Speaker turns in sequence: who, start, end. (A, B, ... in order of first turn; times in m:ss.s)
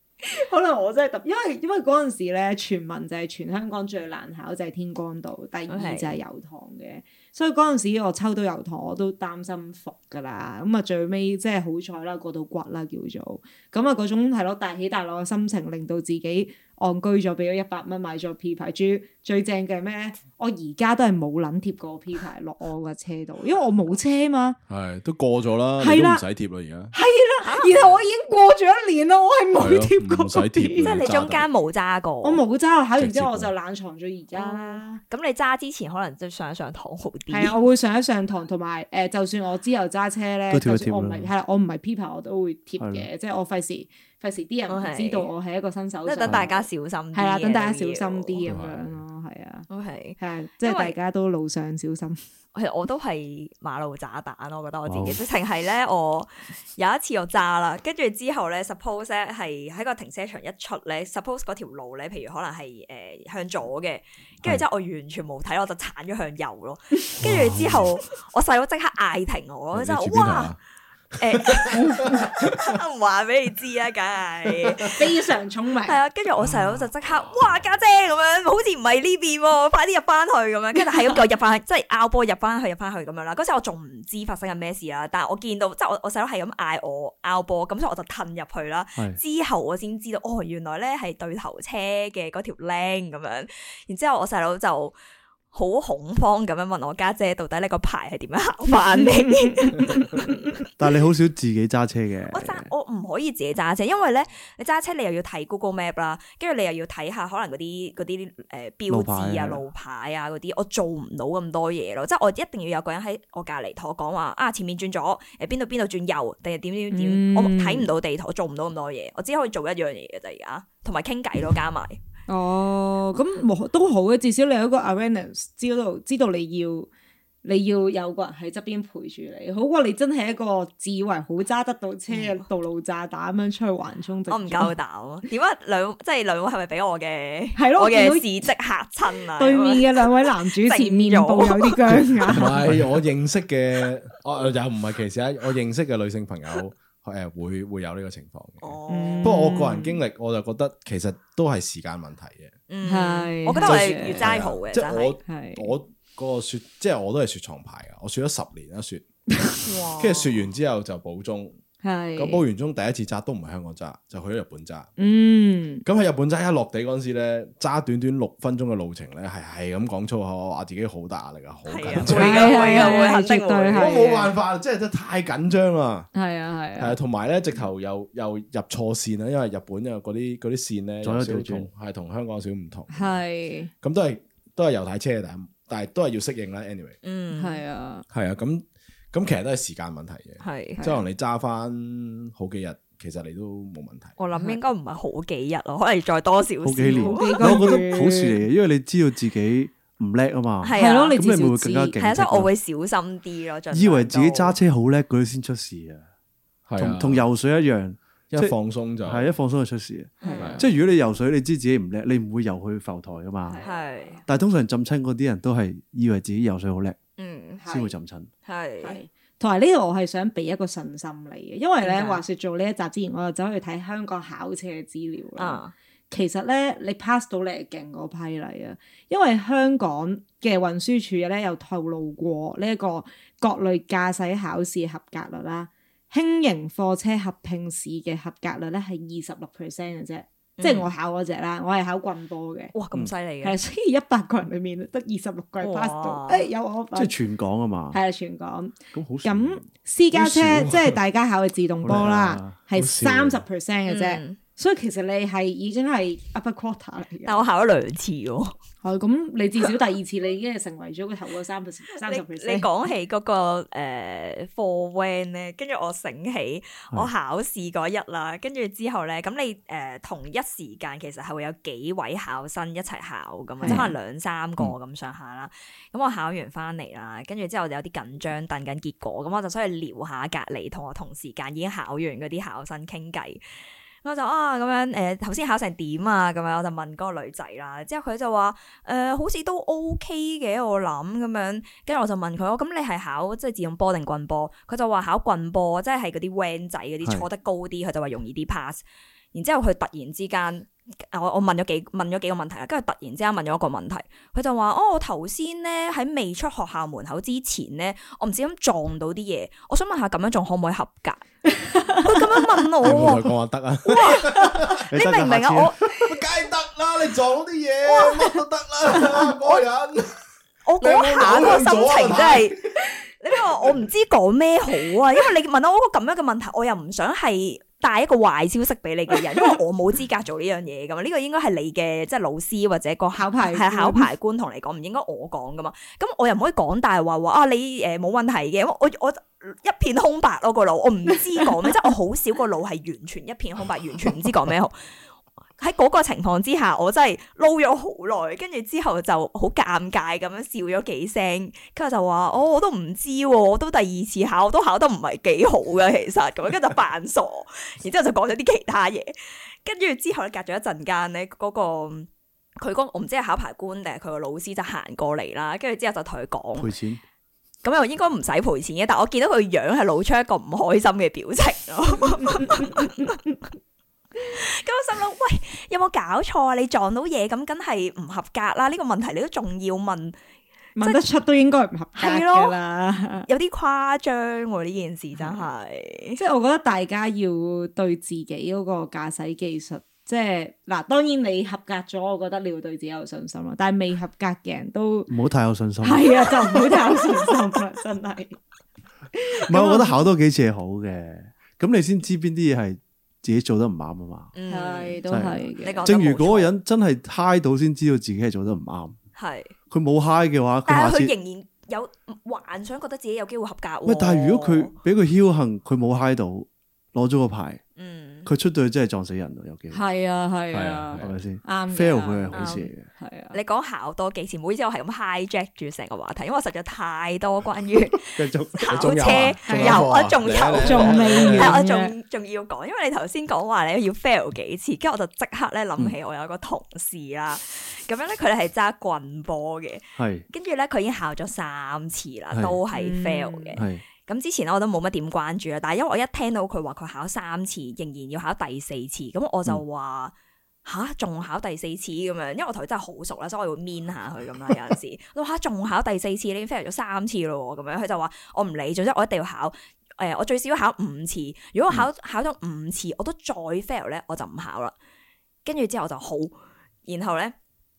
0:00.2-0:24.6 A
0:05.7-0:06.2 B
0:24.7-0:26.9 C
0:25.8-0:26.2 A
0:26.9-0:31.0 A
0:27.4-0:27.8 B
0:29.5-0:31.4 C
0:30.8-0:32.4 B
0:32.2-0:35.0 A
0:33.0-0:33.5 C
0:34.4-0:37.5 B
0:37.3-0:49.7 A
0:40.5-0:41.3 D
0:42.8-0:43.1 D
0:44.7-0:45.3 B
0:46.0-0:48.4 B
0:48.4-0:49.0 C
0:49.7-0:50.9 B
0:50.2-0:52.2 A
0:52.5-1:10.5 B
0:54.8-0:55.2 D
1:07.2-1:07.8 C
1:07.3-1:07.6 D
1:09.7-1:10.6 C
1:11.2-1:12.2 C
1:11.2-1:15.1 B
1:11.9-1:12.2 A
1:14.9-1:16.0 A
1:15.8-1:34.9 B
1:16.4-1:16.8 C
1:35.5-1:40.2 B
1:39.0-1:40.3 A
1:40.8-1:42.7 D
1:42.3-2:02.0 B
1:48.9-1:49.6 D
1:56.9-1:57.9 A
2:02.3-2:06.9 A
2:07.4-2:14.7 A
2:12.1-2:12.4 B
2:14.3-2:22.1 B
2:17.6-2:18.3 A
2:19.4-2:22.6 A
2:22.3-2:32.6 C
2:28.6-2:29.5 B
2:28.9-2:30.0 A
2:32.7-2:35.2 B
2:32.8-2:34.3 A
2:33.6-2:39.0 C
2:35.3-2:35.7 A
2:39.6-2:40.5 B
2:40.0-2:41.6 C
2:41.8-2:42.4 A
2:42.2-2:44.9 C
2:45.0-2:45.8 A
2:45.8-2:53.0 C
2:51.7-2:53.9 B
2:52.0-2:54.3 A
2:53.7-2:56.1 C
2:56.1-2:57.0 A
2:56.8-3:03.2 C
3:01.0-3:01.7 D
3:02.9-3:03.7 A
3:03.8-3:07.0 C
3:07.0-3:07.6 B
3:07.3-3:08.0 A
3:08.1-3:14.2 C
3:10.4-3:10.8 B
3:14.2-3:17.6 B
3:14.3-3:14.6 A
3:16.6-3:22.5 D
3:16.8-3:18.4 A
3:20.6-3:21.2 B
3:20.7-3:22.0 A
3:22.0-3:24.6 B
3:23.7-3:26.0 D
3:26.7-3:27.2 C
3:26.8-3:33.6 D
3:28.3-3:29.3 C
3:30.2-3:30.6 B
3:30.2-3:30.6 A
3:30.4-3:30.7 C
3:33.4-3:34.2 A
3:33.6-3:34.2 B
3:34.3-3:37.0 D
3:37.2-3:37.6 B
3:37.6-3:37.9 A
3:37.6-3:38.3 D
3:38.4-3:39.0 B
3:38.8-4:02.7 A
3:41.8-3:42.2 B
3:45.4-3:45.7 B
4:00.6-4:00.9 B
4:02.7-4:03.6 B
4:03.4-4:07.1 A
4:05.6-4:06.5 B
4:06.9-4:08.0 D
4:07.9-4:17.4 A
4:08.9-4:10.5 D
4:10.2-4:11.0 C
4:11.8-4:12.5 D
4:12.7-4:13.4 C
4:13.8-4:14.4 B
4:17.2-4:18.5 B
4:18.8-4:22.7 A
4:22.0-4:43.4 B
4:33.6-4:33.9 A
4:44.0-5:11.2 B
5:11.5-5:12.4 A
5:11.9-5:13.3 B
5:12.8-5:14.8 C
5:13.8-5:15.8 B
5:14.9-5:15.7 D
5:15.9-5:20.2 C
5:20.6-5:22.6 B
5:20.8-5:22.8 C
5:23.2-5:44.8 B
5:33.1-5:34.1 A
5:45.6-6:06.7 B
6:06.6-6:07.0 D
6:07.6-6:13.2 B
6:12.2-6:13.1 A
6:14.2-6:20.2 B
6:20.8-6:23.3 A
6:22.0-6:22.6 B
6:23.2-6:26.2 B
6:25.2-6:25.4 A
6:26.2-6:35.1 A
6:35.1-6:37.0 D
6:35.8-6:38.4 A
6:39.2-6:40.0 A
6:39.4-6:44.3 D
6:44.3-6:45.0 B
6:44.5-6:45.8 A
6:45.1-6:49.0 D
6:45.6-6:46.5 B
6:49.2-6:49.5 B
6:49.7-6:51.1 D
6:50.6-6:54.7 B
6:53.8-6:57.6 D
6:57.8-6:58.3 B
6:58.2-6:59.8 D
6:59.7-7:03.4 A
7:00.5-7:01.1 C
7:01.0-7:02.9 D
7:02.3-7:02.7 B
7:03.3-7:30.1 B
7:08.1-7:08.9 D
7:08.7-7:11.6 C
7:09.5-7:09.8 A
7:09.5-7:09.8 D
7:10.6-7:11.9 A
7:20.0-7:20.2 D
7:22.3-7:22.6 D
7:22.7-7:23.6 A
7:23.6-7:23.8 D
7:30.6-7:44.7 B
7:45.4-7:46.3 B
7:46.8-7:47.3 B